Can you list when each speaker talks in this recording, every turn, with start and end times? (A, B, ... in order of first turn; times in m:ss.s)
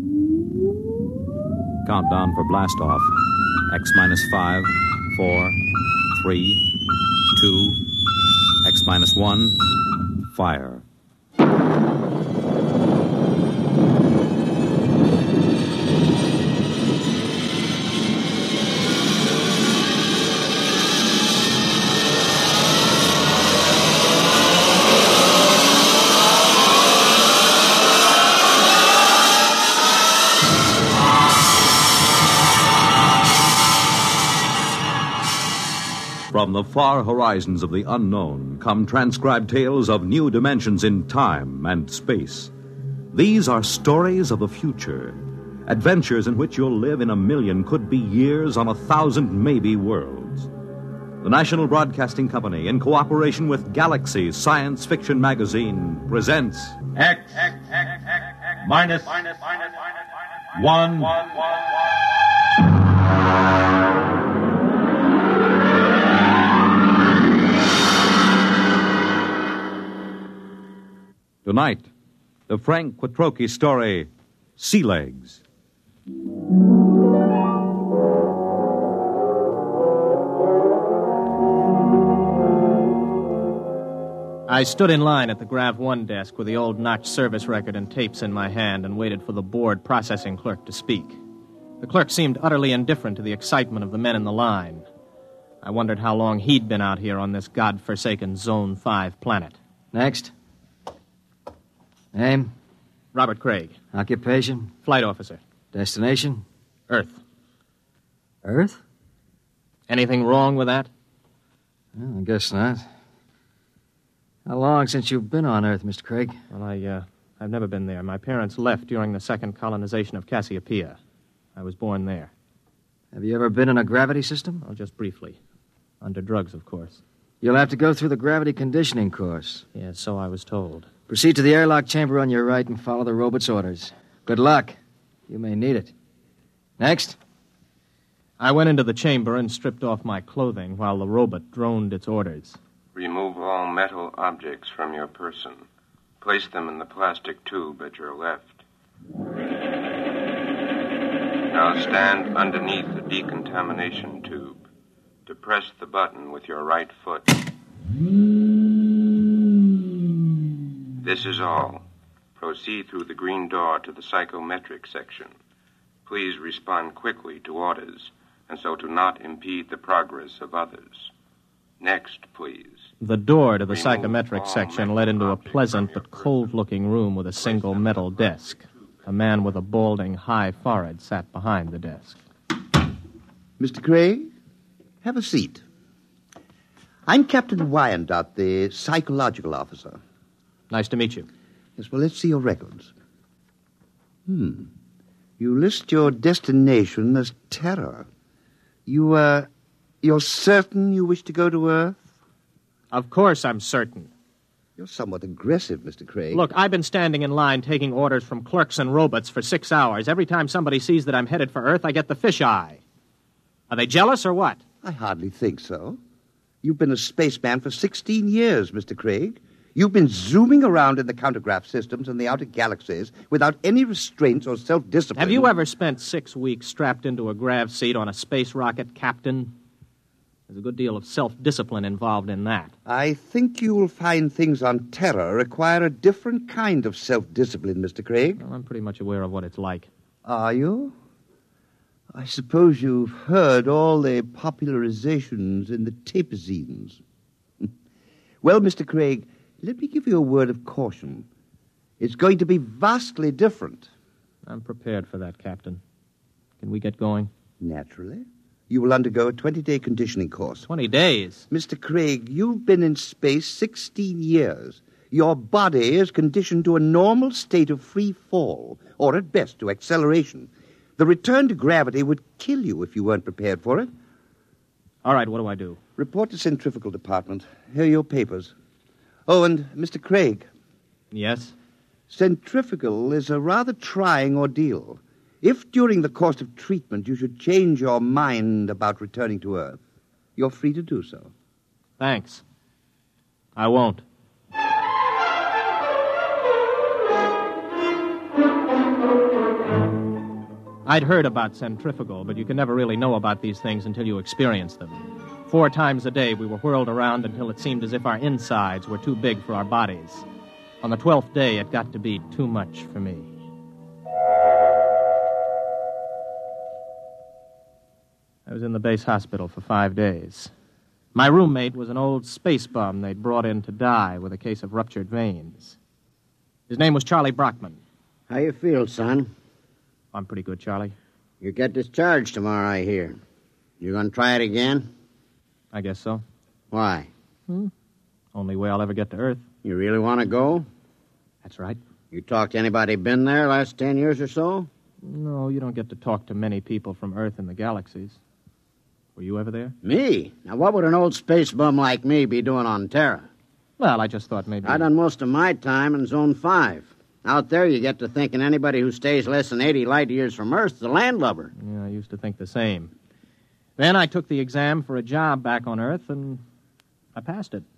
0:01.8-0:03.1 A
0:03.7-0:05.6 A
0:06.1-0:06.6 A
0:07.3-0:07.8 A
0:08.6-0:09.6 A
0:10.3-0:10.8 A
0:36.3-0:42.5 A
0:43.1-0:50.5 A
0:51.2-0:56.8 A
0:57.0-0:57.6 B
0:58.6-0:59.3 B
1:00.5-1:01.2 B
1:11.4-1:11.9 A
1:12.5-1:15.4 A
1:24.5-1:31.2 C
1:31.8-1:34.8 C
1:35.6-1:39.5 C
1:39.9-1:40.3 D
1:42.1-1:42.5 D
1:43.1-1:43.8 C
1:43.9-1:44.7 D
1:44.8-1:45.4 C
1:45.7-1:46.4 D
1:46.9-1:47.2 C
1:48.4-1:48.8 D
1:49.9-1:50.9 C
1:51.9-1:52.8 D
1:54.4-1:56.4 D
1:56.5-2:01.0 C
2:01.6-2:02.3 C
2:03.1-2:04.6 D
2:04.6-2:05.4 C
2:06.0-2:07.0 C
2:07.4-2:09.6 D
2:09.7-2:10.9 C
2:11.1-2:14.8 D
2:15.3-2:15.9 D
2:16.8-2:17.2 D
2:18.4-2:22.6 C
2:22.9-2:25.6 E
2:26.2-2:28.6 E
2:31.5-2:34.6 E
2:35.2-2:37.3 E
2:41.0-2:41.8 E
2:42.4-2:45.3 E
2:46.0-2:51.1 E
2:51.8-2:52.8 E
2:53.0-3:02.2 C
2:53.7-2:56.2 E
3:03.6-3:04.3 F
3:05.0-3:05.6 F
3:07.1-3:10.0 F
3:10.7-3:11.3 C
3:11.8-3:12.9 F
3:14.2-3:14.7 F
3:15.4-3:18.1 F
3:18.8-3:19.5 F
3:20.0-3:22.1 F
3:22.9-3:24.1 C
3:24.8-3:26.4 F
3:26.3-3:32.8 C
3:33.7-3:34.6 C
3:34.8-3:36.0 F
3:36.6-3:45.5 F
3:45.1-3:49.5 C
3:50.5-3:52.7 C
3:52.8-3:58.4 F
3:58.4-3:59.9 C
4:00.2-4:00.9 F
4:02.1-4:07.0 F
4:08.4-4:11.3 F
4:12.0-4:13.9 F
4:14.4-4:15.8 C
4:16.6-4:17.3 C
4:17.6-4:20.7 F
4:20.7-4:21.4 C
4:21.5-4:33.9 F
4:35.0-4:35.8 C
4:36.0-4:38.5 F
4:39.3-4:40.5 F
4:41.1-4:41.5 C
4:42.1-4:49.8 F
4:50.4-4:51.3 F
4:52.0-4:52.4 C
4:53.6-4:54.0 C
5:00.8-5:10.2 C
5:10.8-5:13.3 C
5:18.4-5:20.5 C
5:21.1-5:25.8 C
5:26.7-5:27.8 C
5:28.3-5:29.3 G
5:30.1-5:31.0 C
5:31.4-5:33.2 G
5:33.8-5:34.9 G
5:35.7-5:36.2 C
5:36.7-5:37.1 G
5:38.3-5:39.4 C
5:39.6-5:40.6 G
5:41.4-5:41.8 C
5:42.1-5:44.7 G
5:45.0-5:48.2 C
5:49.2-5:49.8 C
5:49.8-5:53.3 G
5:53.8-5:54.9 C
5:54.6-6:01.5 G
6:01.6-6:02.9 C
6:03.8-6:06.4 C
6:07.1-6:07.6 C